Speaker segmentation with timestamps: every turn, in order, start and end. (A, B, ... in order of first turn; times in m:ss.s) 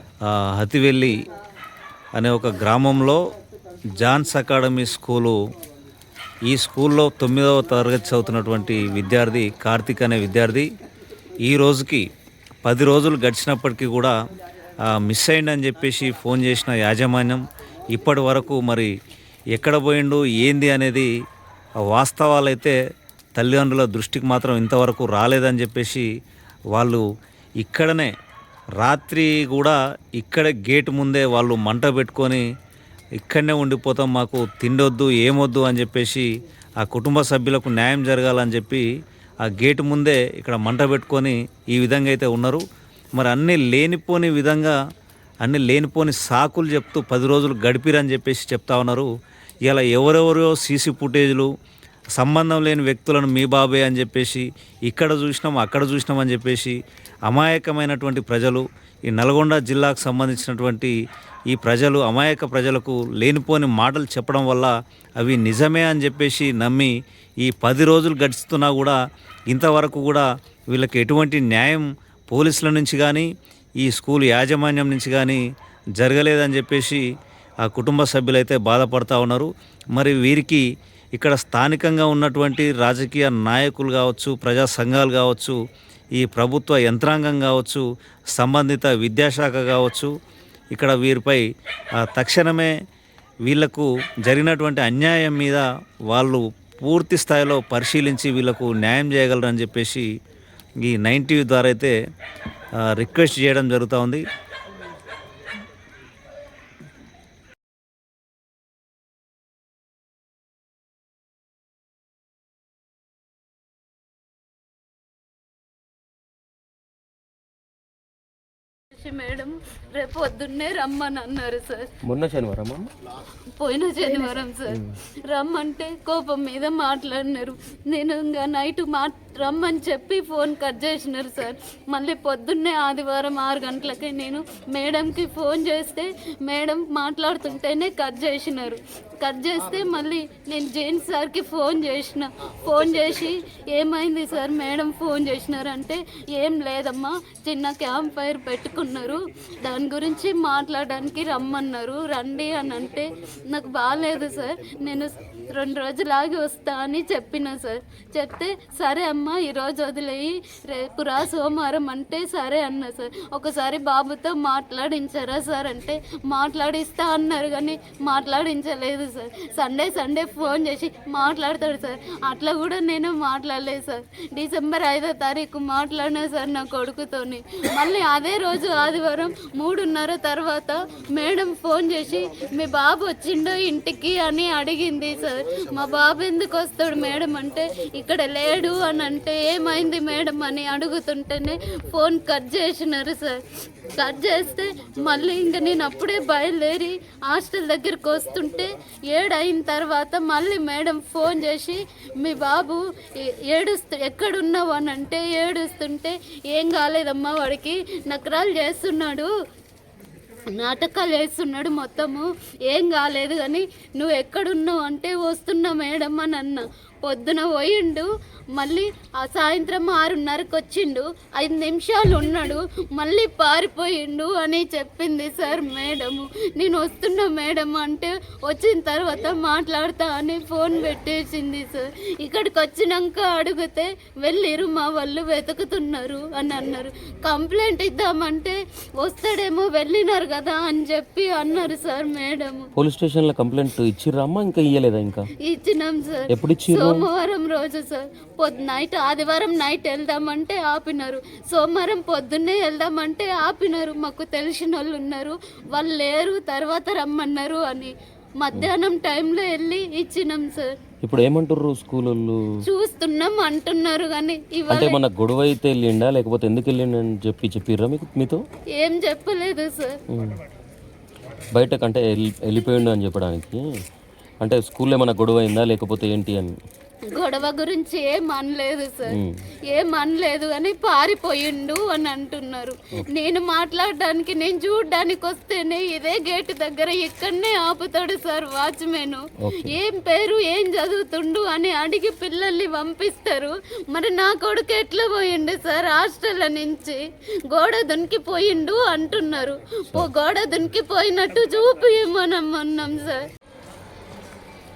0:00.3-0:01.1 A
0:02.1-0:03.2 A
0:04.0-0:05.4 A
0:06.5-0:10.7 A
0:11.4-0:12.1 A
0:12.6-0:14.2 A
0:14.9-0:18.9 A
0:19.6-0:21.1 A
0:21.8-0:22.8 A
0:23.4-0:26.1 A
0:26.8-0:27.0 A
0:27.6-0:28.1 A
0:28.8-0:32.4 A
0:33.2-0:36.3 A
0:36.8-0:38.9 A
0:39.4-0:42.6 A
0:43.2-0:44.8 A
0:45.4-0:49.1 A
0:49.7-0:51.5 A
0:52.2-1:01.0 A
1:01.5-1:09.0 A
1:09.5-1:13.3 A
1:13.8-1:15.4 A
1:16.0-1:17.0 A
1:17.6-1:20.6 A
1:21.1-1:25.6 A
1:26.2-1:30.1 A
1:30.7-1:31.4 A
1:32.0-1:32.7 A
1:33.5-1:40.1 A
1:40.8-1:42.0 A
1:42.8-1:44.2 A
1:58.9-2:01.9 B
2:02.0-2:02.9 C
2:03.6-3:29.3 B
3:30.6-4:02.7 B
4:02.8-4:05.3 C
4:05.4-4:20.8 B
4:06.3-4:07.1 C
4:21.0-4:22.4 C
4:22.6-4:25.0 B
4:24.7-4:28.4 C
4:28.8-4:30.0 B
4:30.1-4:30.4 C
4:31.6-4:33.6 C
4:34.4-4:36.6 C
4:37.1-4:39.2 B
4:39.1-4:39.4 C
4:39.7-5:03.3 B
4:49.4-4:49.8 C